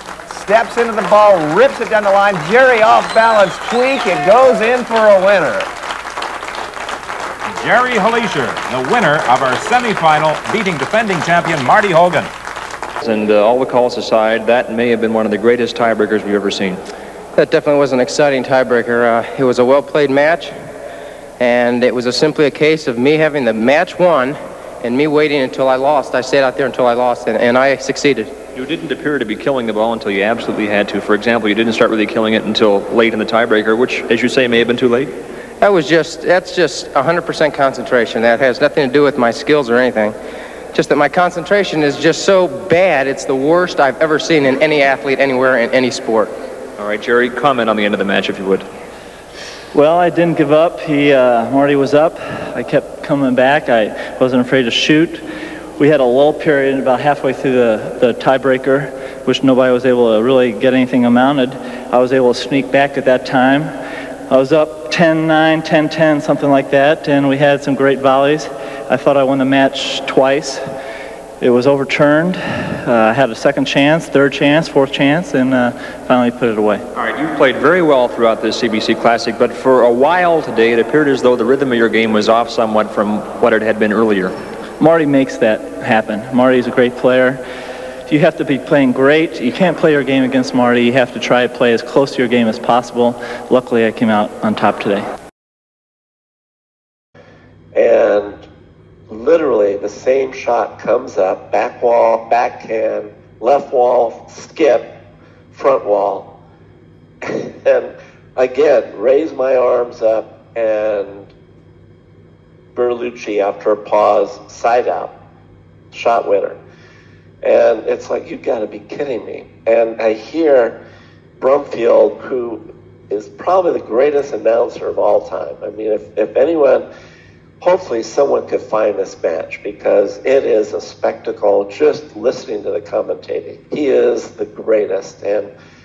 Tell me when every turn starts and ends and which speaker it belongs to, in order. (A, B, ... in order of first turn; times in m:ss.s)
0:00.3-0:05.7 A
0:07.5-0:12.3 B
0:13.0-0:16.8 C
0:17.4-0:20.5 D
0:21.4-0:28.3 D
0:28.5-0:35.1 C
0:35.6-0:40.2 D
0:40.7-0:46.3 D
0:46.8-0:48.7 C
0:49.7-0:55.2 E
0:55.8-1:03.7 E
1:04.3-1:10.6 E
1:11.4-1:16.8 E
1:16.9-1:24.4 C
1:24.8-1:27.4 E
1:28.1-1:35.1 E
1:37.7-1:38.4 F
1:39.1-1:45.0 F
1:45.5-1:46.3 F
1:47.2-1:51.3 F
1:52.7-1:55.1 F
1:55.9-1:56.6 F
1:57.4-2:00.8 F
2:01.4-2:06.9 F
2:07.6-2:15.5 F